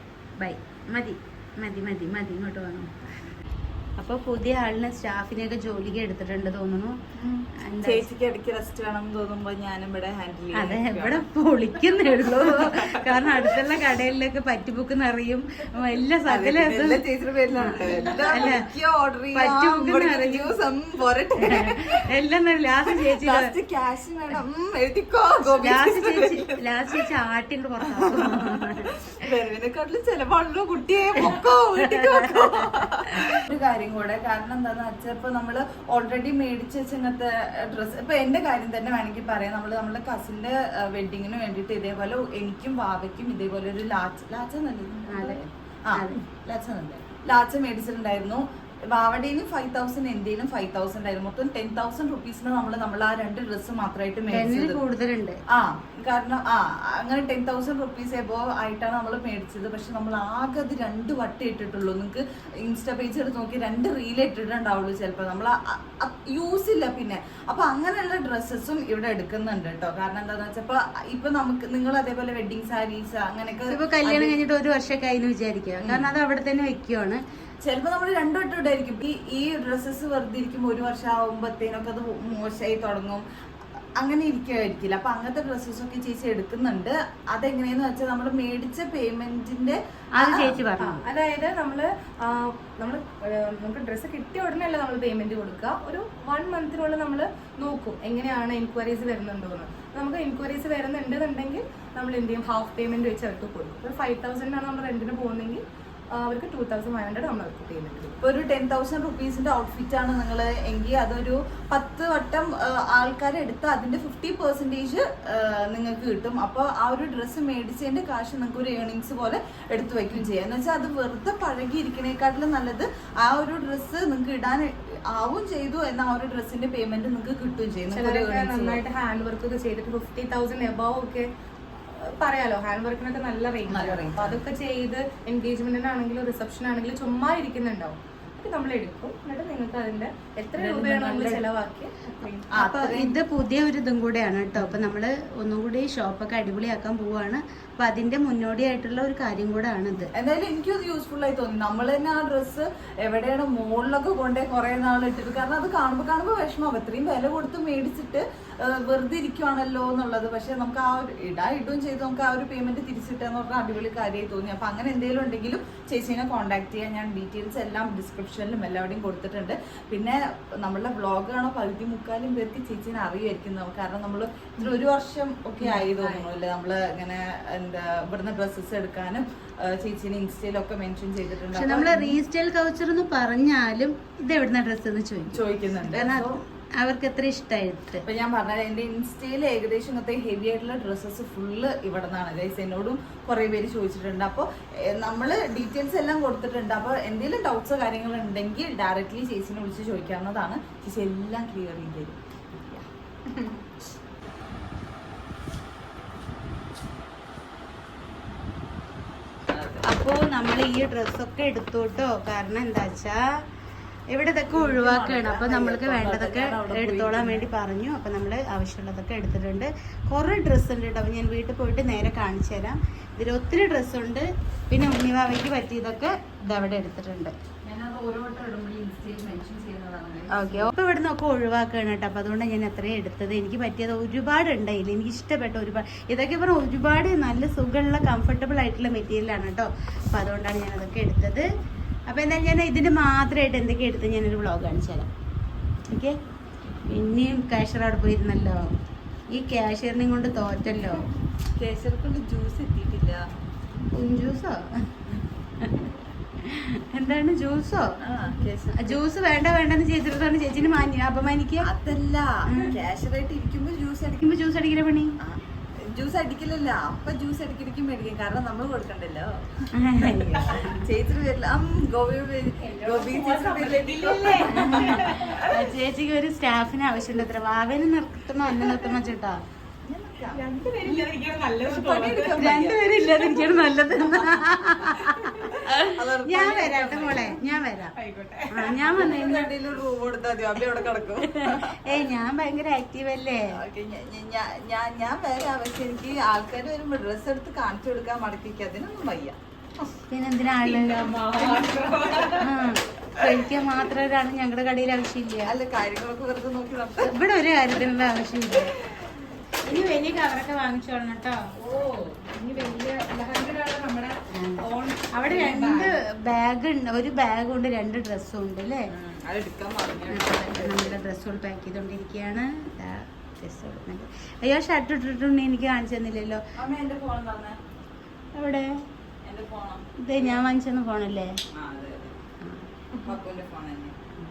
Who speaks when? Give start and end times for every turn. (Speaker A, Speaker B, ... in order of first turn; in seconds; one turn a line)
Speaker A: 0.4-3.3
Speaker A: 4.0-7.0
Speaker B: 7.2-11.3
Speaker A: 7.7-8.1
Speaker A: 10.5-17.0
Speaker B: 12.3-13.7
Speaker B: 16.3-22.0
Speaker A: 17.6-18.7
Speaker A: 19.3-20.6
Speaker A: 21.4-23.5
Speaker B: 23.1-26.6
Speaker A: 25.6-28.9
Speaker B: 27.9-54.8
Speaker A: 31.2-32.4
Speaker A: 45.1-46.2
Speaker A: 54.3-55.4
Speaker B: 55.5-74.3
Speaker A: 73.7-77.2
Speaker B: 75.8-76.1
Speaker B: 77.6-83.2
Speaker B: 84.0-90.6
Speaker A: 90.2-91.0
Speaker C: 90.8-108.2
Speaker B: 108.2-128.8
Speaker C: 127.9-131.3
Speaker C: 131.8-142.5
Speaker B: 133.7-134.4
Speaker B: 140.6-141.4
Speaker B: 142.5-143.2
Speaker A: 142.6-150.1
Speaker B: 144.6-144.8
Speaker B: 150.1-182.2
Speaker A: 181.5-188.0
Speaker B: 185.3-186.4
Speaker B: 188.0-202.2
Speaker B: 209.5-209.9
Speaker A: 209.8-213.2
Speaker A: 214.1-227.3
Speaker B: 214.5-217.5
Speaker B: 227.6-230.7
Speaker A: 230.3-241.4
Speaker A: 242.1-245.1
Speaker A: 246.9-248.6
Speaker A: 249.3-251.1
Speaker B: 251.6-253.2
Speaker A: 253.9-254.7
Speaker A: 255.6-257.9
Speaker B: 258.0-259.0
Speaker A: 258.7-261.7
Speaker B: 261.6-264.2
Speaker A: 262.5-262.8
Speaker A: 264.2-265.1
Speaker B: 265.2-275.3
Speaker A: 269.8-270.9
Speaker C: 272.6-275.6
Speaker A: 274.5-279.4
Speaker B: 279.8-280.4
Speaker C: 280.3-282.4
Speaker B: 281.6-284.4
Speaker A: 282.3-287.9
Speaker B: 285.5-287.4
Speaker C: 288.0-289.0
Speaker A: 288.5-289.5
Speaker B: 288.8-292.0
Speaker A: 290.8-293.6
Speaker B: 293.5-299.9
Speaker A: 300.1-301.5
Speaker B: 300.6-302.6
Speaker C: 301.5-302.3
Speaker A: 302.4-305.5
Speaker B: 305.4-307.1
Speaker A: 307.0-308.8
Speaker A: 309.6-311.4
Speaker C: 311.6-316.0
Speaker A: 314.3-318.9
Speaker B: 318.9-321.0
Speaker A: 320.1-326.4
Speaker B: 326.6-327.6
Speaker A: 328.4-328.7
Speaker B: 329.2-330.5
Speaker A: 330.0-331.3
Speaker B: 331.5-332.2
Speaker B: 333.1-334.0